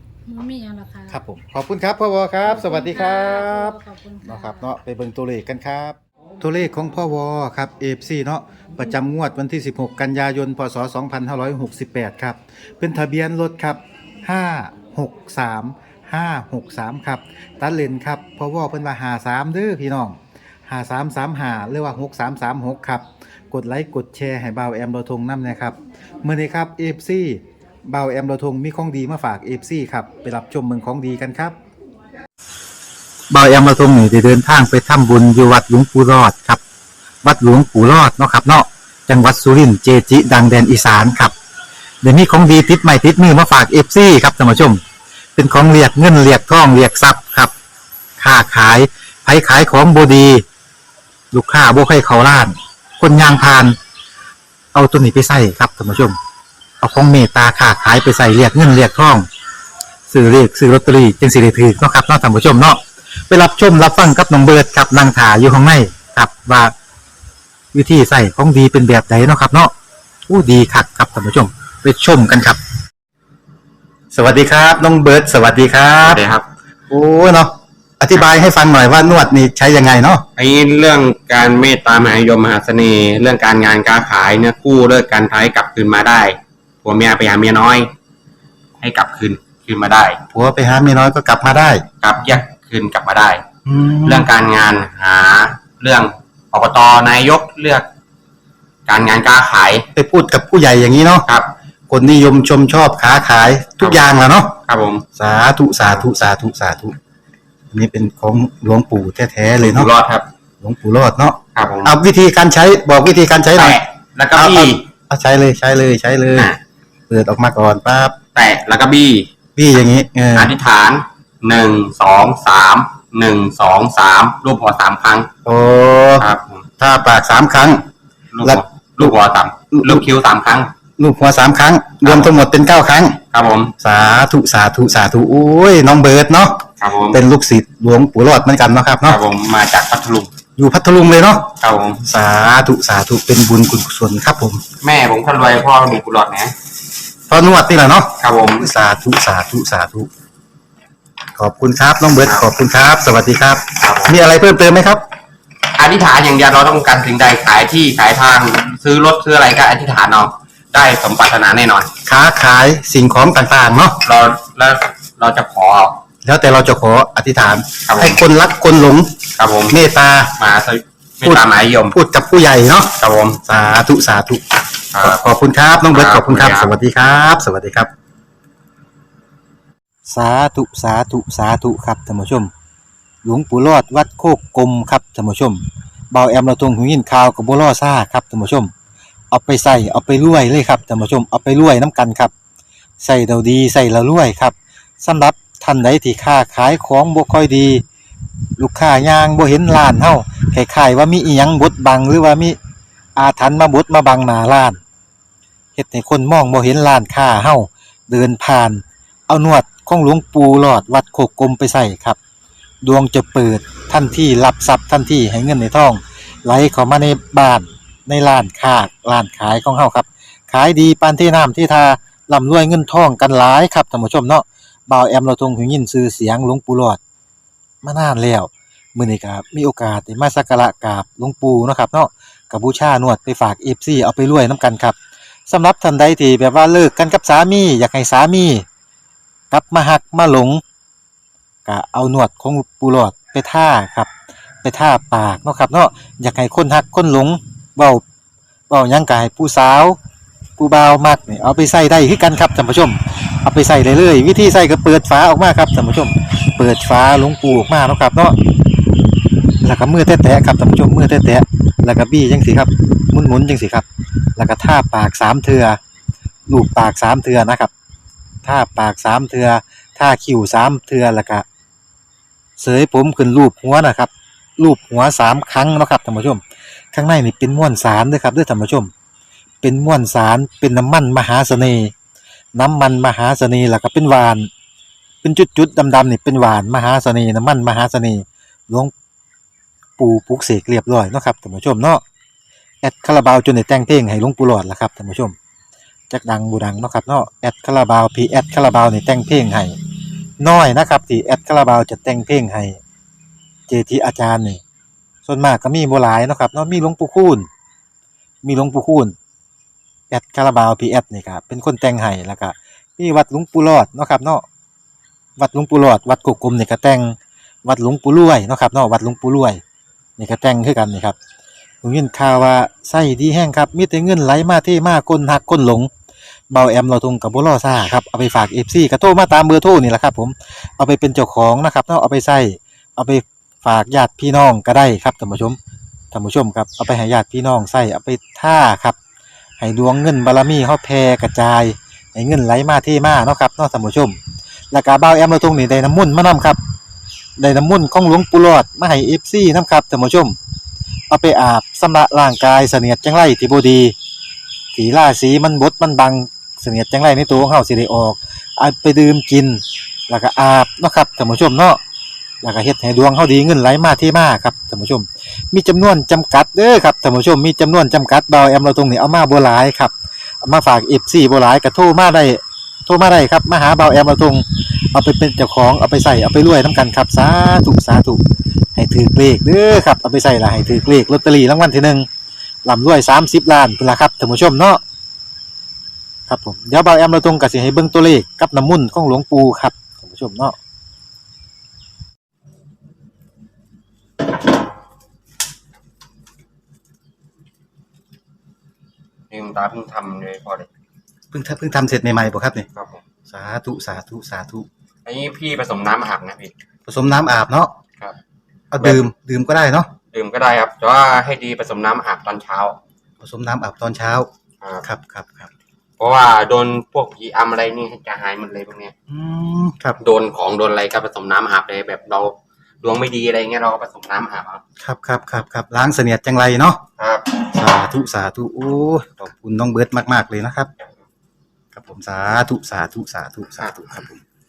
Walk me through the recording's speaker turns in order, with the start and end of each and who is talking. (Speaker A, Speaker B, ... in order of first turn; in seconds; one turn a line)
Speaker A: 0.2-1.2
Speaker B: 1.1-31.6
Speaker A: 2.5-4.7
Speaker B: 33.3-36.6
Speaker B: 37.2-41.3
Speaker B: 42.0-44.8
Speaker B: 45.4-47.5
Speaker B: 48.2-50.4
Speaker B: 51.3-53.8
Speaker B: 54.7-56.2
Speaker B: 56.8-59.2
Speaker B: 60.1-66.7
Speaker B: 67.7-69.7
Speaker B: 70.3-72.6
Speaker B: 74.1-76.2
Speaker C: 76.0-76.4
Speaker B: 76.9-80.2
Speaker C: 80.4-87.9
Speaker C: 88.8-90.2
Speaker B: 90.3-91.8
Speaker C: 92.0-93.4
Speaker B: 93.7-94.3
Speaker C: 94.0-97.9
Speaker C: 98.9-99.8
Speaker B: 100.0-101.3
Speaker B: 101.9-104.6
Speaker C: 104.7-105.0
Speaker B: 105.1-106.9
Speaker B: 107.7-109.9
Speaker C: 109.5-110.3
Speaker B: 110.6-113.8
Speaker C: 111.5-112.0
Speaker C: 113.5-114.8
Speaker B: 114.3-116.5
Speaker B: 117.1-118.2
Speaker C: 118.3-119.3
Speaker B: 119.5-120.5
Speaker C: 120.3-125.3
Speaker B: 125.4-126.3
Speaker C: 126.2-126.7
Speaker B: 126.8-127.8
Speaker C: 128.3-130.7
Speaker B: 128.4-129.1
Speaker B: 129.7-130.1
Speaker B: 131.0-133.2
Speaker C: 132.0-132.3
Speaker C: 133.3-133.7
Speaker B: 133.8-139.2
Speaker C: 136.8-137.2
Speaker C: 139.0-140.3
Speaker B: 140.6-141.5
Speaker C: 141.6-142.0
Speaker B: 142.0-144.6
Speaker C: 144.8-146.5
Speaker B: 147.3-150.1
Speaker C: 148.2-148.7
Speaker B: 151.3-155.0
Speaker C: 153.8-154.2
Speaker C: 155.8-161.9
Speaker B: 162.0-164.0
Speaker C: 164.0-166.0
Speaker B: 166.2-170.3
Speaker C: 167.8-168.2
Speaker C: 169.4-169.8
Speaker C: 170.4-171.9
Speaker B: 171.2-174.4
Speaker C: 173.0-173.4
Speaker C: 174.9-175.2
Speaker B: 175.0-177.9
Speaker C: 175.8-176.7
Speaker B: 180.1-182.5
Speaker B: 183.2-188.7
Speaker B: 189.3-192.3
Speaker B: 193.0-197.8
Speaker B: 198.6-202.6
Speaker B: 203.2-204.8
Speaker B: 205.8-212.2
Speaker B: 212.8-227.0
Speaker B: 227.8-235.0
Speaker B: 235.5-238.6
Speaker B: 239.5-240.6
Speaker B: 241.7-244.1
Speaker B: 244.6-248.0
Speaker B: 248.7-250.0
Speaker B: 250.6-258.4
Speaker B: 259.6-263.9
Speaker B: 264.4-265.8
Speaker B: 266.5-267.7
Speaker B: 268.4-271.4
Speaker B: 272.6-278.9
Speaker B: 279.6-281.9
Speaker B: 282.5-284.5
Speaker B: 285.2-288.9
Speaker B: 290.0-292.0
Speaker B: 292.8-295.3
Speaker B: 296.1-299.8
Speaker B: 300.4-302.8
Speaker B: 303.7-304.6
Speaker B: 305.2-307.5
Speaker B: 308.4-309.1
Speaker B: 310.1-314.4
Speaker B: 315.4-319.6
Speaker B: 320.2-321.1
Speaker B: 321.8-325.9
Speaker B: 326.5-335.6
Speaker B: 336.1-338.9
Speaker B: 339.6-344.2
Speaker B: 344.7-346.6
Speaker B: 347.4-350.4
Speaker B: 351.1-353.9
Speaker B: 354.7-361.8
Speaker B: 362.4-378.2
Speaker B: 378.8-382.1
Speaker B: 382.6-384.8
Speaker B: 386.3-390.5
Speaker C: 399.3-400.7
Speaker B: 401.3-402.7
Speaker C: 402.7-403.0
Speaker B: 403.3-404.7
Speaker C: 405.0-406.5
Speaker B: 406.9-407.7
Speaker B: 408.7-409.9
Speaker C: 410.1-412.8
Speaker B: 413.2-414.3
Speaker C: 414.6-414.9
Speaker B: 414.8-415.5
Speaker C: 416.0-418.9
Speaker B: 419.1-420.0
Speaker C: 420.0-424.6
Speaker B: 424.8-426.8
Speaker C: 427.0-427.4
Speaker B: 427.4-430.7
Speaker B: 431.7-434.1
Speaker C: 433.6-434.2